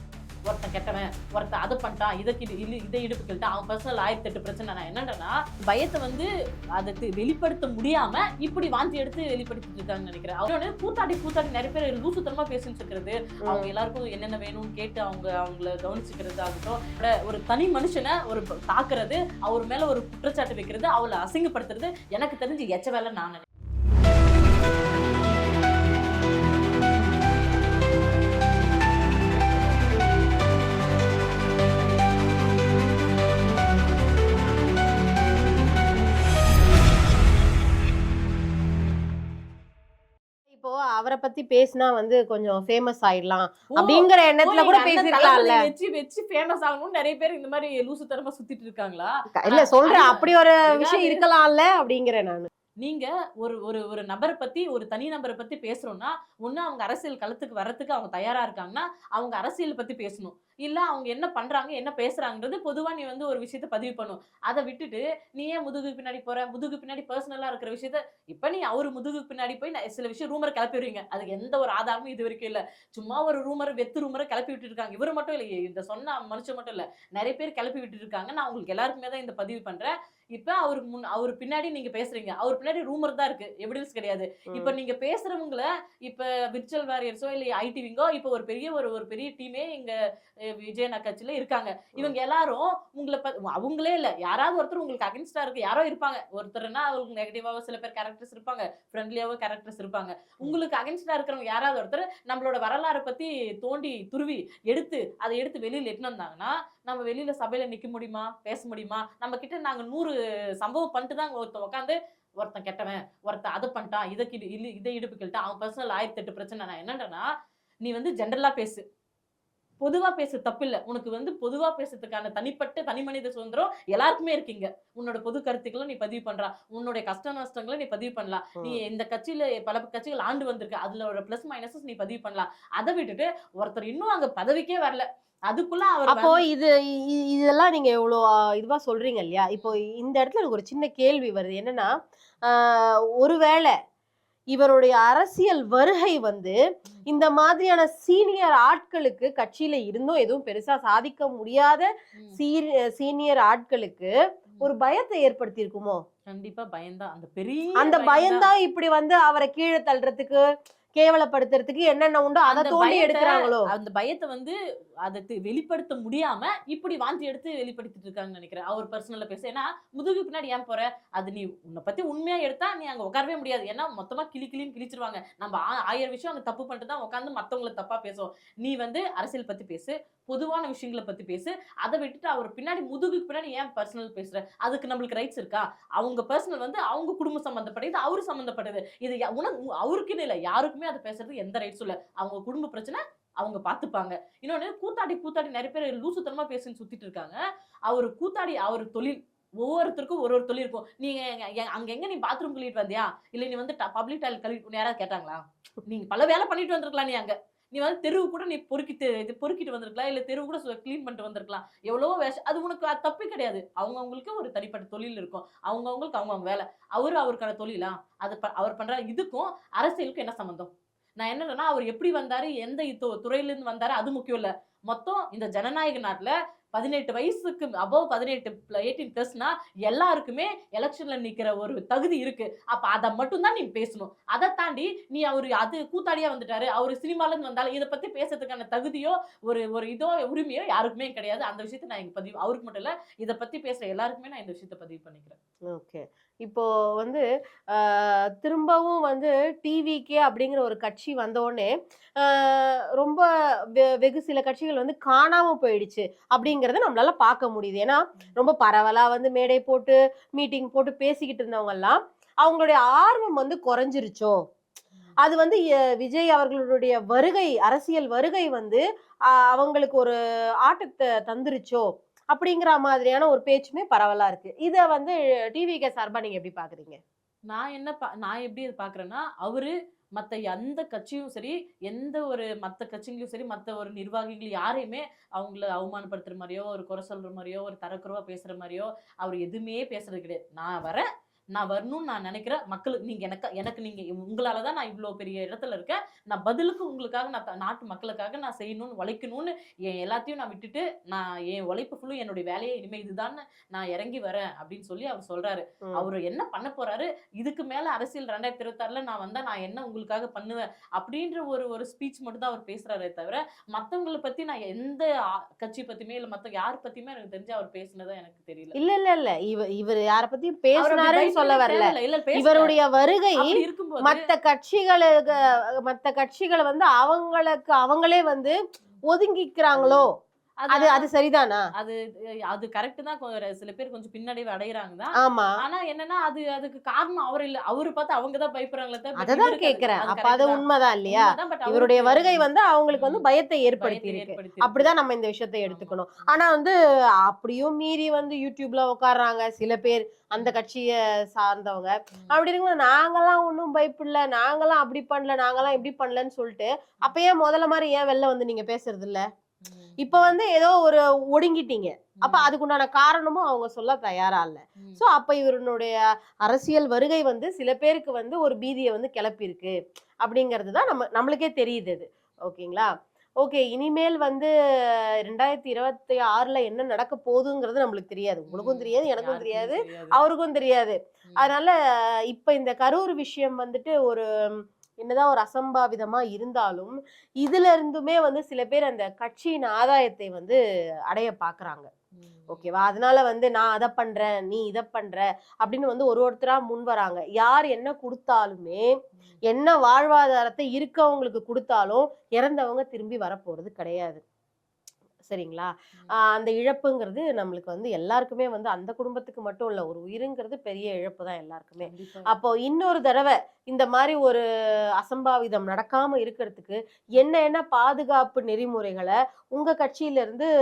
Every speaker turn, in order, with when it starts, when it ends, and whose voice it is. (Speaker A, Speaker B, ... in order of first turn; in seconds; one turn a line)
Speaker A: 0.5-6.3
Speaker A: 6.8-23.4
Speaker B: 40.5-45.6
Speaker A: 43.8-51.2
Speaker B: 49.4-52.5
Speaker A: 52.8-90.0
Speaker A: 90.5-117.3
Speaker A: 117.8-118.8
Speaker A: 119.8-136.4
Speaker B: 136.1-141.9
Speaker B: 142.5-143.7
Speaker B: 144.5-146.6
Speaker B: 147.1-156.0
Speaker A: 156.3-158.5
Speaker B: 157.8-160.4
Speaker B: 161.0-163.7
Speaker A: 162.5-197.4
Speaker A: 197.9-245.4
Speaker B: 245.7-253.2
Speaker B: 253.8-264.4
Speaker B: 265.2-268.8
Speaker B: 269.3-277.0
Speaker A: 277.5-315.1
Speaker A: 315.6-318.8
Speaker B: 318.8-328.6
Speaker A: 320.8-322.8
Speaker A: 323.4-324.2
Speaker B: 329.1-330.1
Speaker A: 329.7-330.1
Speaker A: 330.6-331.1
Speaker B: 330.7-331.6
Speaker A: 332.5-343.2
Speaker B: 335.2-335.6
Speaker B: 339.2-346.7
Speaker A: 343.8-344.9
Speaker A: 345.7-346.3
Speaker B: 347.3-359.2
Speaker A: 352.1-352.4
Speaker A: 359.6-360.3
Speaker B: 360.0-365.9
Speaker A: 362.2-362.5
Speaker B: 366.5-372.9
Speaker B: 373.4-381.7
Speaker A: 378.5-380.2
Speaker B: 382.3-384.2
Speaker B: 385.0-390.6
Speaker B: 391.1-391.9
Speaker A: 392.2-392.7
Speaker B: 392.5-398.9
Speaker B: 399.5-404.2
Speaker B: 405.2-405.7
Speaker B: 406.2-414.4
Speaker A: 411.8-412.4
Speaker B: 415.0-420.5